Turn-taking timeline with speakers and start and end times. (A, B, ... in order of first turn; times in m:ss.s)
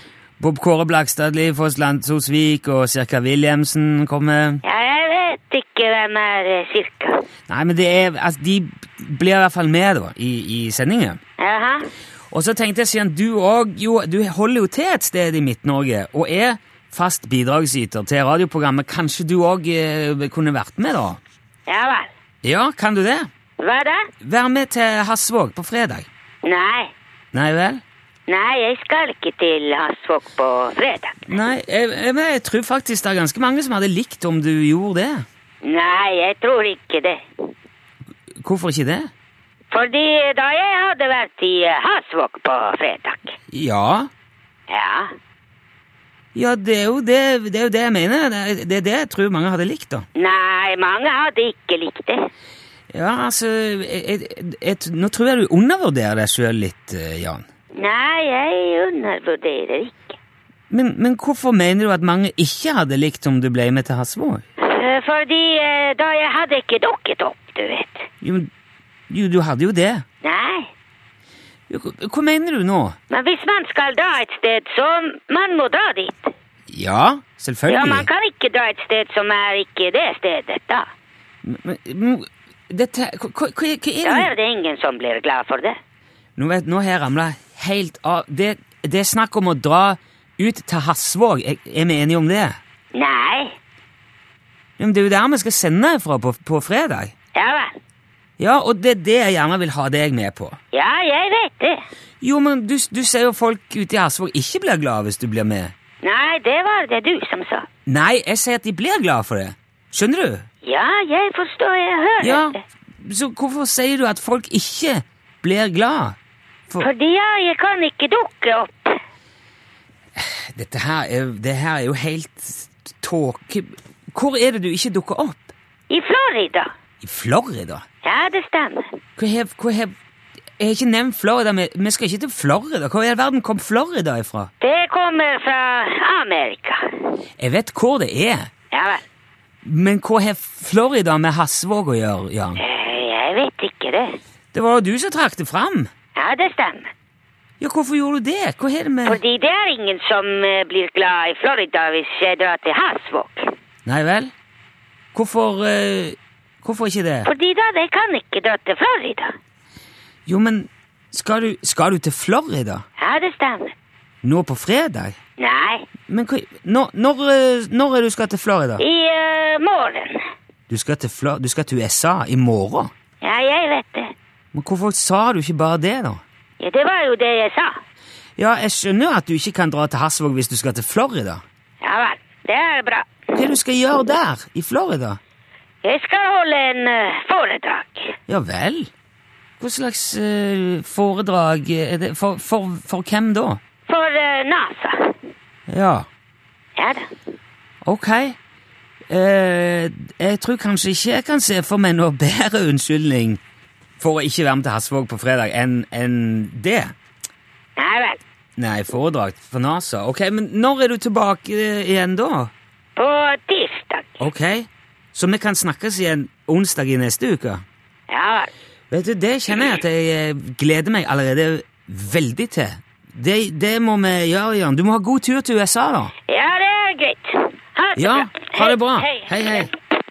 0:00.4-0:04.6 A
0:04.6-0:07.2 B
0:07.5-0:11.2 A
0:11.4-0:11.9 B
0:12.3-0:21.2 A
0:21.7-0:22.1 B
0:22.4-0:23.3 A
0:23.6-0:24.1 B
0:24.2-0:26.1 A
0:26.4-0:26.9 B
0:27.3-0:27.8 A
0:28.3-0:31.2 B
0:31.3-0:35.2 A
0:35.6-0:37.2 B
0:38.4-0:39.1 A
0:39.7-0:43.4 B
0:43.5-0:44.1 A
0:44.7-0:45.1 B
0:46.3-0:50.0 A
0:50.1-0:52.3 B
0:52.9-0:57.4 A
0:57.7-1:00.2 B
1:00.7-1:04.4 A
1:04.6-1:08.1 B
1:08.2-1:08.5 A
1:09.1-1:10.0 A
1:10.2-1:10.7 B
1:11.7-1:13.0 A
1:13.1-1:16.3 B
1:16.7-1:18.1 A
1:17.7-1:20.8 B
1:21.4-1:24.3 A
1:24.0-1:25.8 B
1:26.4-1:32.6 A
1:32.9-1:33.6 B
1:34.8-1:37.1 A
1:37.3-1:37.8 B
1:38.4-1:40.6 A
1:40.7-1:41.8 B
1:42.2-1:45.7 A
1:46.0-1:47.7 B
1:47.8-1:50.4 A
1:50.6-1:52.6 B
1:52.2-1:56.2 A
1:56.8-1:58.9 B
2:00.2-2:05.5 A
2:05.9-2:06.7 B
2:07.0-2:07.8 A
2:08.0-2:08.9 B
2:09.2-2:09.9 A
2:10.6-2:14.5 A
2:14.6-2:17.1 B
2:17.4-2:18.5 A
2:18.7-2:19.0 B
2:19.6-2:22.6 A
2:22.6-2:24.2 B
2:24.5-2:25.9 A
2:26.2-2:26.9 B
2:27.6-2:29.2 A
2:29.0-2:33.5 B
2:33.8-2:34.3 A
2:35.1-2:37.3 A
2:37.2-2:39.3 B
2:40.2-2:42.8 A
2:43.0-2:43.7 B
2:44.2-2:45.2 A
2:45.4-2:45.9 B
2:46.1-2:48.8 A
2:48.8-2:50.2 B
2:50.7-2:52.9 A
2:53.2-2:54.1 B
2:54.5-2:56.2 A
2:56.6-2:57.7 B
2:58.4-3:01.4 A
3:01.8-3:03.1 B
3:03.3-3:05.2 A
3:05.8-3:08.2 B
3:08.3-3:08.9 A
3:09.6-3:13.6 A
3:13.9-3:15.1 B
3:15.7-3:16.1 A
3:16.8-3:17.1 B
3:17.8-3:18.4 A
3:19.1-3:23.4 A
3:24.0-3:26.9 A
3:27.8-3:28.2 B
3:28.6-3:32.5 A
3:33.0-3:34.2 B
3:34.2-3:37.6 A
3:38.1-3:38.5 B
3:38.9-3:46.1 A
3:46.3-3:49.7 B
3:48.0-3:49.7 A